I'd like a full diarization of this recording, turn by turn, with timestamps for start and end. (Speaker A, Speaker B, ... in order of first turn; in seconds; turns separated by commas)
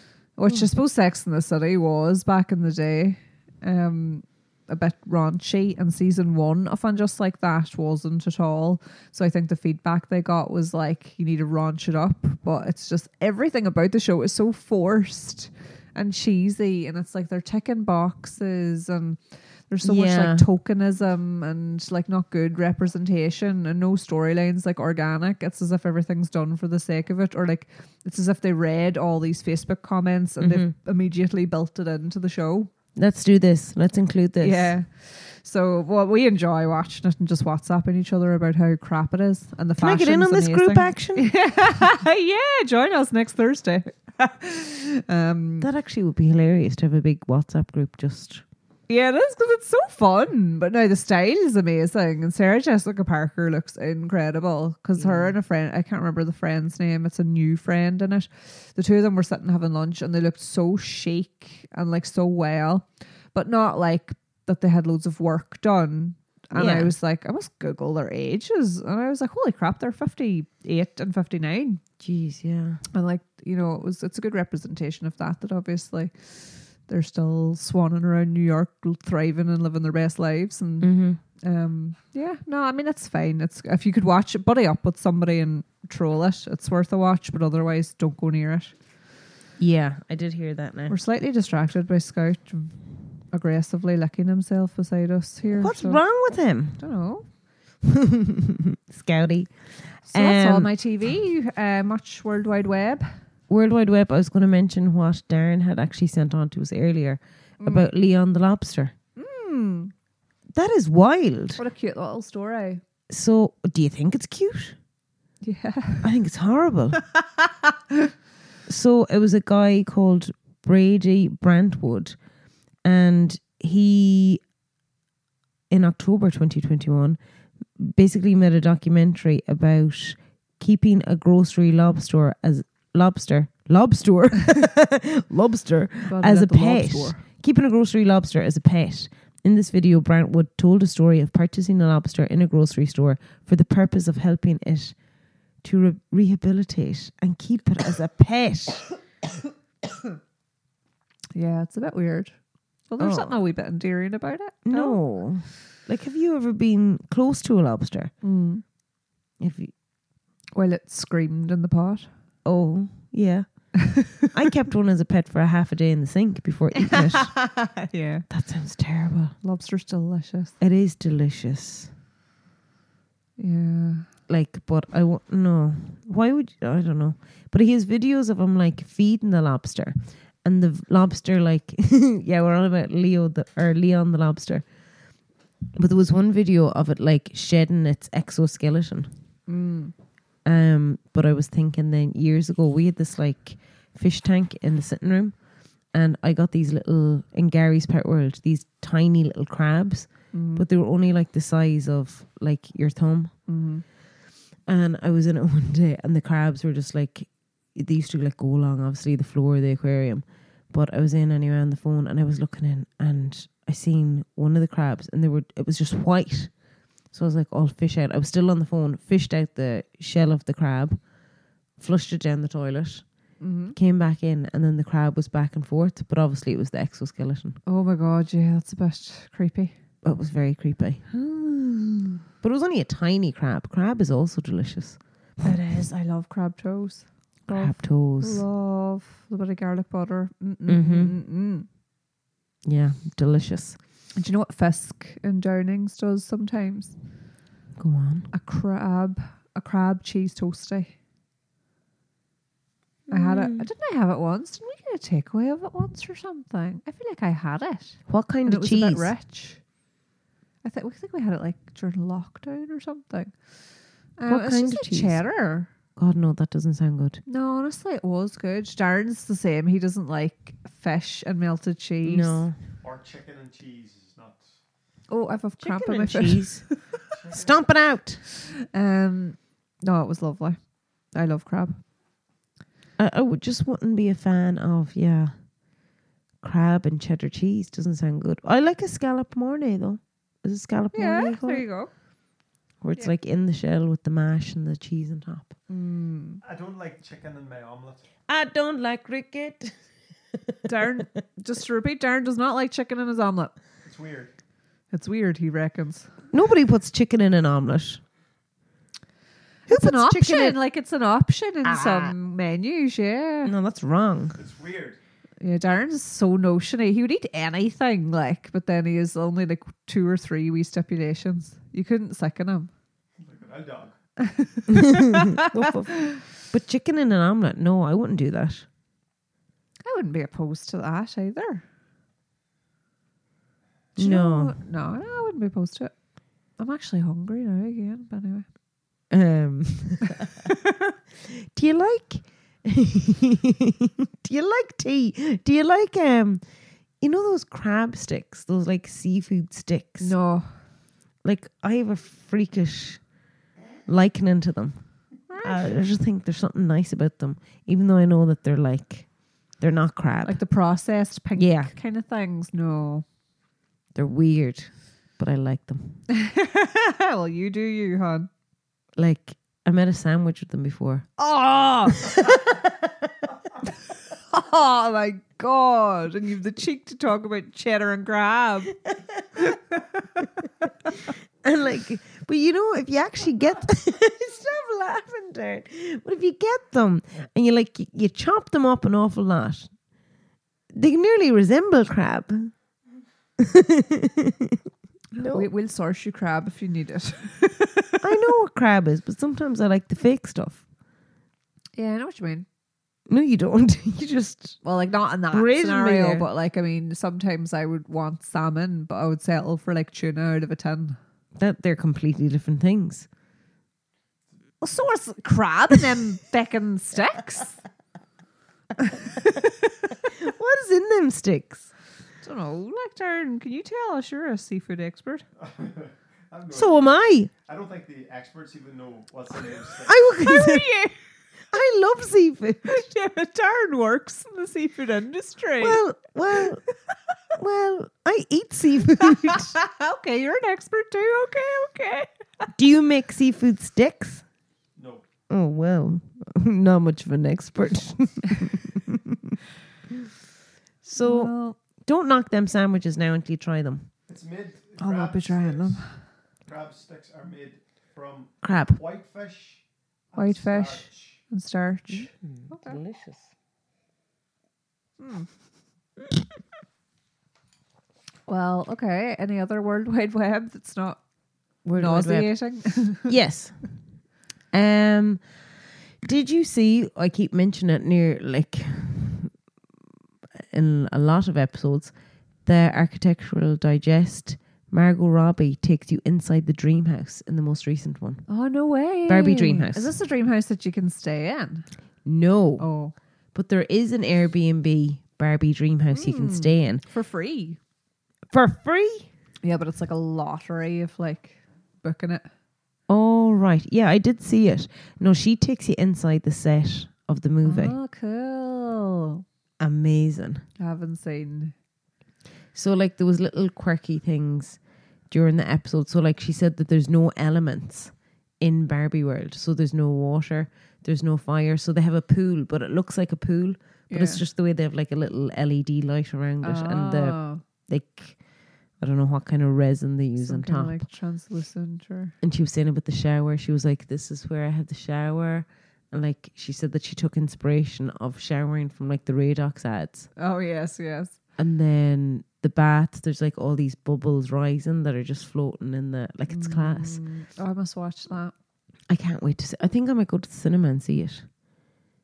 Speaker A: 0.3-32.7, Speaker B: 19.8-20.4, Speaker B: 30.4-30.7, Speaker B: 32.9-34.7, Speaker A: 34.4-45.7, Speaker B: 39.8-41.3, Speaker B: 45.6-48.4, Speaker A: 48.9-71.8, Speaker B: 55.0-55.3, Speaker B: 66.5-66.9, Speaker B: 72.0-72.8, Speaker A: 72.9-88.8, Speaker B: 80.8-81.2, Speaker B: 89.6-91.0, Speaker A: 90.9-92.8, Speaker A: 93.3-96.0, Speaker B: 95.5-96.8, Speaker A: 96.8-97.2, Speaker B: 97.8-100.7, Speaker A: 100.1-103.2, Speaker B: 103.5-108.9, Speaker A: 107.6-107.9, Speaker A: 109.2-109.9, Speaker B: 110.5-111.6, Speaker A: 111.5-112.8, Speaker B: 113.1-114.8, Speaker A: 115.4-116.1, Speaker B: 116.0-117.0, Speaker A: 117.6-118.1, Speaker B: 118.7-122.2, Speaker B: 122.8-124.4, Speaker B: 125.7-127.2, Speaker B: 127.8-144.9, Speaker A: 136.1-137.2, Speaker B: 145.6-148.9, Speaker A: 151.3-152.3, Speaker A: 152.9-155.0, Speaker B: 153.0-153.3, Speaker B: 154.6-158.1, Speaker A: 158.2-158.6, Speaker B: 159.4-159.7, Speaker A: 160.5-162.1, Speaker B: 162.4-167.4, Speaker A: 166.8-168.3, Speaker B: 168.3-169.3, Speaker A: 169.4-170.5, Speaker B: 170.6-171.9, Speaker A: 173.4-174.1, Speaker B: 174.3-184.6, Speaker B: 185.8-189.1, Speaker A: 189.5-189.9, Speaker B: 190.4-195.3, Speaker B: 195.9-203.3, Speaker A: 200.3-200.6, Speaker A: 203.5-203.8, Speaker B: 204.7-216.5, Speaker B: 217.1-221.0, Speaker B: 221.8-223.1, Speaker A: 223.4-223.8, Speaker B: 223.7-227.6, Speaker A: 227.7-229.7, Speaker B: 230.0-231.1, Speaker A: 231.1-232.2, Speaker B: 232.4-235.5, Speaker A: 235.4-241.7, Speaker B: 237.5-238.4, Speaker B: 240.7-241.1, Speaker B: 242.6-243.8, Speaker A: 244.2-246.9, Speaker B: 247.8-248.3, Speaker A: 248.3-250.9, Speaker B: 253.1-253.7, Speaker A: 253.1-259.6, Speaker B: 258.1-259.1, Speaker A: 260.6-263.3, Speaker A: 264.1-265.7, Speaker B: 264.3-265.2, Speaker B: 265.9-267.2, Speaker A: 267.2-272.4, Speaker B: 272.0-272.6, Speaker C: 272.8-274.5, Speaker A: 275.1-276.8, Speaker B: 275.6-276.6, Speaker C: 277.1-277.6, Speaker B: 277.3-278.2, Speaker A: 278.7-280.6, Speaker A: 281.1-281.8, Speaker B: 283.0-285.3, Speaker B: 286.4-291.6, Speaker A: 290.9-291.9, Speaker B: 292.8-295.5, Speaker A: 295.7-296.4, Speaker C: 296.4-298.0, Speaker B: 298.3-299.7, Speaker A: 300.6-303.6, Speaker C: 303.8-304.3, Speaker A: 304.9-306.2, Speaker B: 306.3-308.0, Speaker A: 309.7-313.5, Speaker B: 309.7-310.6, Speaker B: 311.6-312.1, Speaker B: 313.4-314.4, Speaker C: 314.4-315.0, Speaker A: 315.4-322.7, Speaker C: 323.2-323.9, Speaker A: 324.4-325.4, Speaker B: 324.7-328.6, Speaker A: 325.9-326.2, Speaker A: 329.8-331.6, Speaker B: 333.9-334.6, Speaker A: 334.0-335.9, Speaker A: 336.6-338.4, Speaker B: 339.1-340.5, Speaker B: 341.5-346.4, Speaker B: 347.0-350.1, Speaker A: 350.0-350.5, Speaker B: 351.2-353.0, Speaker B: 353.9-360.4, Speaker A: 355.3-355.7, Speaker A: 360.2-363.1, Speaker B: 361.4-361.7, Speaker B: 363.9-366.0, Speaker A: 366.1-368.3, Speaker B: 368.9-371.1, Speaker A: 371.2-372.6, Speaker A: 374.3-378.8, Speaker A: 379.4-380.3, Speaker B: 381.4-389.7, Speaker B: 390.7-392.5, Speaker B: 393.4-394.6, Speaker A: 395.1-398.0, Speaker B: 395.2-395.5, Speaker B: 398.0-400.6, Speaker A: 401.8-402.4, Speaker B: 403.1-404.6, Speaker A: 404.6-411.0, Speaker B: 405.3-406.3, Speaker B: 411.4-413.1, Speaker A: 414.6-417.6, Speaker A: 418.8-420.1, Speaker B: 420.1-421.7, Speaker A: 422.2-425.2, Speaker C: 425.4-430.1, Speaker B: 426.5-427.3, Speaker B: 429.9-430.7, Speaker A: 430.2-430.9, Speaker B: 431.5-432.8, Speaker A: 432.6-435.8, Speaker B: 435.6-436.6, Speaker B: 437.3-439.6, Speaker A: 439.1-442.5, Speaker B: 442.6-444.2, Speaker C: 444.8-445.0, Speaker B: 445.3-449.4, Speaker B: 450.8-453.9, Speaker A: 451.0-451.6, Speaker C: 454.1-455.9, Speaker A: 454.8-456.0, Speaker C: 456.4-461.2, Speaker B: 458.4-458.8, Speaker A: 460.1-462.8, Speaker B: 461.9-463.3, Speaker A: 465.0-465.3, Speaker A: 468.3-471.0, Speaker B: 471.6-472.3, Speaker A: 471.7-473.1, Speaker B: 472.9-473.6, Speaker B: 474.5-475.2, Speaker B: 476.0-479.3, Speaker B: 480.4-481.9, Speaker B: 482.4-488.2, Speaker A: 488.3-491.7, Speaker B: 489.1-489.9, Speaker B: 492.0-492.7, Speaker A: 492.6-492.9, Speaker B: 493.3-496.8, Speaker A: 495.9-497.6, Speaker B: 498.3-499.1, Speaker A: 499.4-502.3, Speaker B: 502.9-507.7, Speaker A: 507.4-509.2, Speaker B: 509.6-510.4, Speaker A: 510.6-511.5, Speaker B: 512.5-528.2, Speaker A: 523.9-524.2, Speaker A: 526.4-527.4, Speaker B: 528.8-530.9, Speaker A: 530.2-532.1, Speaker B: 532.2-540.1, Speaker A: 540.1-541.2, Speaker B: 541.4-547.0, Speaker A: 546.3-548.3, Speaker B: 548.9-551.3